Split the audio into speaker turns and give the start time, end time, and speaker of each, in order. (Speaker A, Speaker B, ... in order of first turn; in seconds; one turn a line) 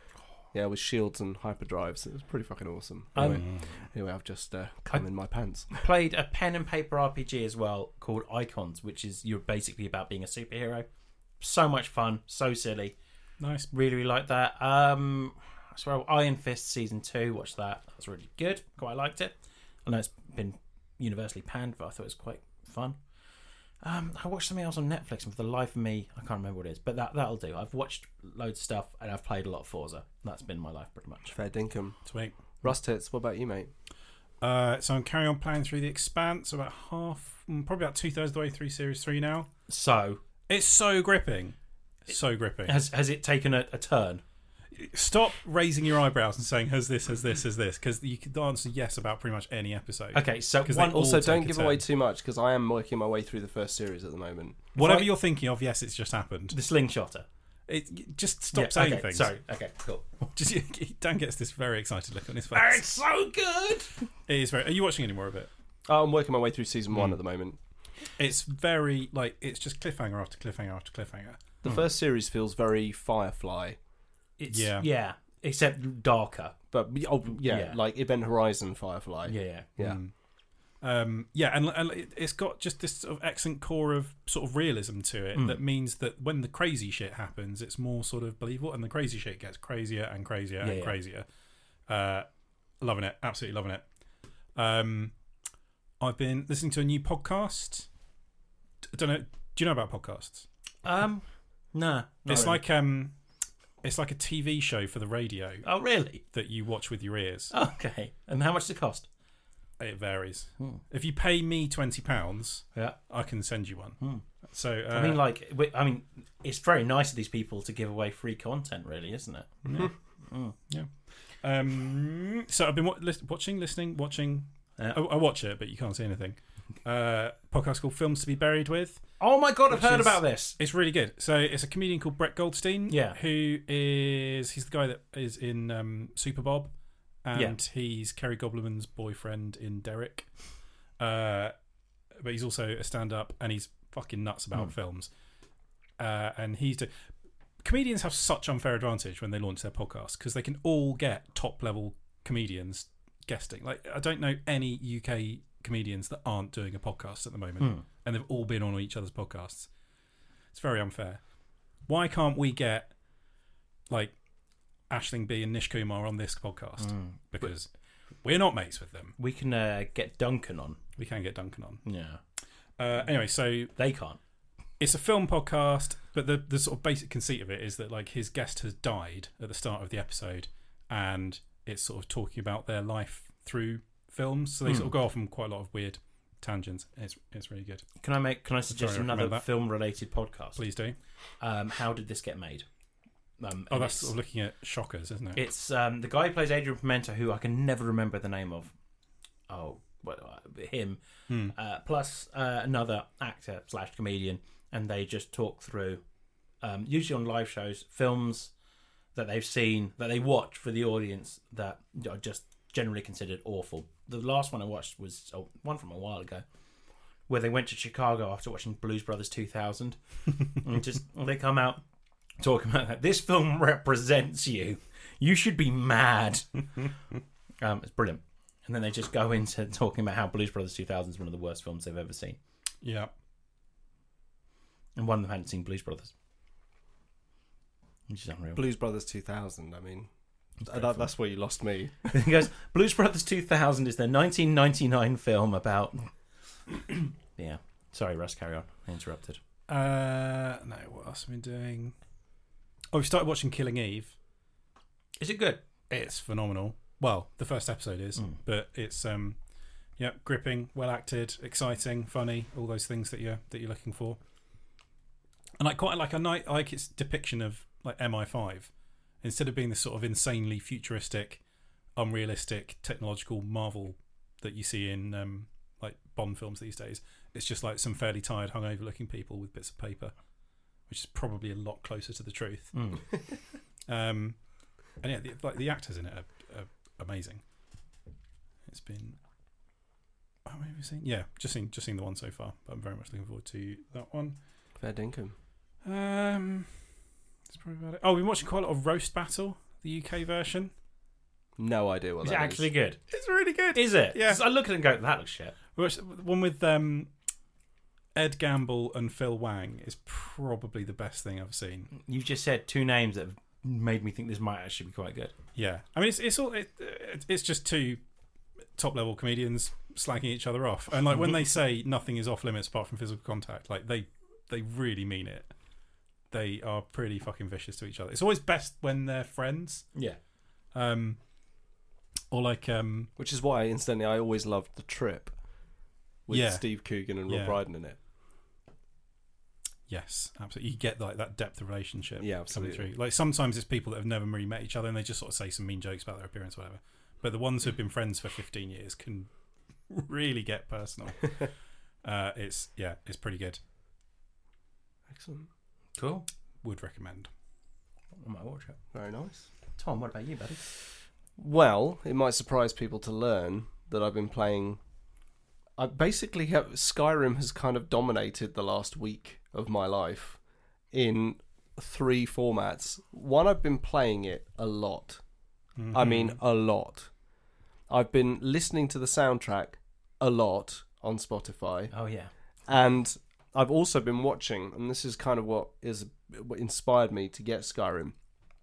Speaker A: 0.5-5.8
Speaker B: 3.1-3.5
Speaker C: 3.2-3.7
Speaker B: 5.7-10.9
Speaker B: 11.4-12.9
Speaker C: 13.4-13.7
Speaker B: 13.7-19.3
Speaker B: 19.9-23.0
Speaker B: 23.8-31.3
Speaker A: 31.3-31.9
Speaker C: 32.0-32.4
Speaker A: 32.6-33.7
Speaker C: 34.4-39.5
Speaker B: 39.7-40.2
Speaker C: 40.5-41.5
Speaker C: 42.1-42.8
Speaker B: 42.6-44.2
Speaker C: 44.7-51.8
Speaker B: 50.1-51.1
Speaker A: 50.7-54.7
Speaker B: 54.7-55.1
Speaker C: 54.8-56.6
Speaker B: 56.5-57.2
Speaker C: 57.7-59.3
Speaker B: 58.5-60.3
Speaker C: 60.3-62.8
Speaker B: 62.5-64.0
Speaker C: 64.3-65.5
Speaker A: 65.9-67.6
Speaker C: 68.2-71.4
Speaker A: 71.6-73.8
Speaker B: 74.4-76.5
Speaker C: 74.5-74.9
Speaker A: 76.7-80.0
Speaker B: 77.4-77.8
Speaker B: 79.3-79.7
Speaker C: 79.8-80.1
Speaker C: 80.8-91.3
Speaker B: 85.3-85.6
Speaker B: 90.6-91.0
Speaker C: 91.9-92.3
Speaker C: 92.8-93.8
Speaker C: 94.5-95.1
Speaker C: 96.0-97.9
Speaker C: 98.9-100.5
Speaker B: 100.8-102.6
Speaker C: 102.3-103.1
Speaker C: 103.8-105.7
Speaker B: 105.6-106.2
Speaker C: 106.3-107.5
Speaker B: 107.5-109.1
Speaker C: 109.8-114.0
Speaker C: 114.5-115.2
Speaker B: 114.9-120.5
Speaker C: 119.6-119.9
Speaker C: 121.4-129.0
Speaker B: 129.2-130.6
Speaker C: 129.7-136.7
Speaker B: 132.9-133.2
Speaker C: 137.2-140.3
Speaker C: 141.0-141.5
Speaker C: 142.2-145.1
Speaker C: 146.0-146.9
Speaker C: 147.6-159.7
Speaker B: 157.6-157.8
Speaker C: 160.5-161.2
Speaker C: 161.9-162.9
Speaker C: 163.9-164.1
Speaker C: 164.9-167.7
Speaker B: 166.8-167.5
Speaker C: 168.2-169.1
Speaker B: 169.2-170.8
Speaker C: 171.0-171.8
Speaker B: 171.8-172.2
Speaker C: 172.8-173.7
Speaker B: 173.8-174.2
Speaker C: 174.8-187.8
Speaker B: 188.0-190.6
Speaker C: 188.7-189.4
Speaker C: 190.6-191.0
Speaker B: 191.4-192.7
Speaker B: 193.4-194.1
Speaker C: 193.7-195.4
Speaker B: 195.3-198.7
Speaker B: 199.5-201.0
Speaker C: 201.3-201.5
Speaker B: 201.5-206.0
Speaker B: 206.6-208.5
Speaker B: 209.1-216.4
Speaker B: 217.3-221.8
Speaker B: 222.4-226.8
Speaker B: 227.6-232.4
Speaker C: 232.8-233.1
Speaker B: 234.9-236.1
Speaker B: 238.1-238.6
Speaker A: 238.5-240.1
Speaker A: 240.6-242.1
Speaker B: 242.1-246.1
Speaker B: 246.7-249.4
Speaker C: 249.7-251.9
Speaker C: 252.9-254.2
Speaker B: 255.2-255.6
Speaker C: 255.9-259.4
Speaker C: 260.0-264.2
Speaker C: 265.6-268.7
Speaker C: 269.2-271.4
Speaker C: 271.9-280.1
Speaker C: 280.9-282.8
Speaker B: 282.7-283.1
Speaker C: 283.9-284.4
Speaker C: 285.0-287.4
Speaker C: 288.6-289.2
Speaker C: 290.4-294.4
Speaker A: 294.8-295.3
Speaker C: 295.8-296.7
Speaker C: 297.5-300.7
Speaker A: 301.6-302.7
Speaker B: 302.2-303.0
Speaker C: 303.1-304.4
Speaker B: 303.7-305.6
Speaker C: 305.7-307.1
Speaker C: 308.1-311.9
Speaker B: 311.9-315.3
Speaker C: 315.5-318.0
Speaker C: 318.7-325.5
Speaker C: 326.3-329.9
Speaker C: 330.7-331.2
Speaker C: 332.3-333.1
Speaker A: 333.2-335.3
Speaker A: 336.3-338.0
Speaker C: 336.3-336.6
Speaker C: 337.3-337.6
Speaker C: 339.9-349.3
Speaker A: 342.2-342.9
Speaker C: 349.9-351.3
Speaker C: 352.0-353.6
Speaker A: 355.1-355.5
Speaker B: 356.0-356.2
Speaker C: 356.6-357.3
Speaker B: 358.2-358.8
Speaker A: 358.9-359.5
Speaker B: 359.8-360.6
Speaker A: 361.4-364.8
Speaker A: 365.8-370.4
Speaker A: 370.9-375.2
Speaker C: 375.8-376.4
Speaker A: 375.9-377.1
Speaker A: 377.9-381.9
Speaker B: 381.9-382.3
Speaker A: 382.7-388.1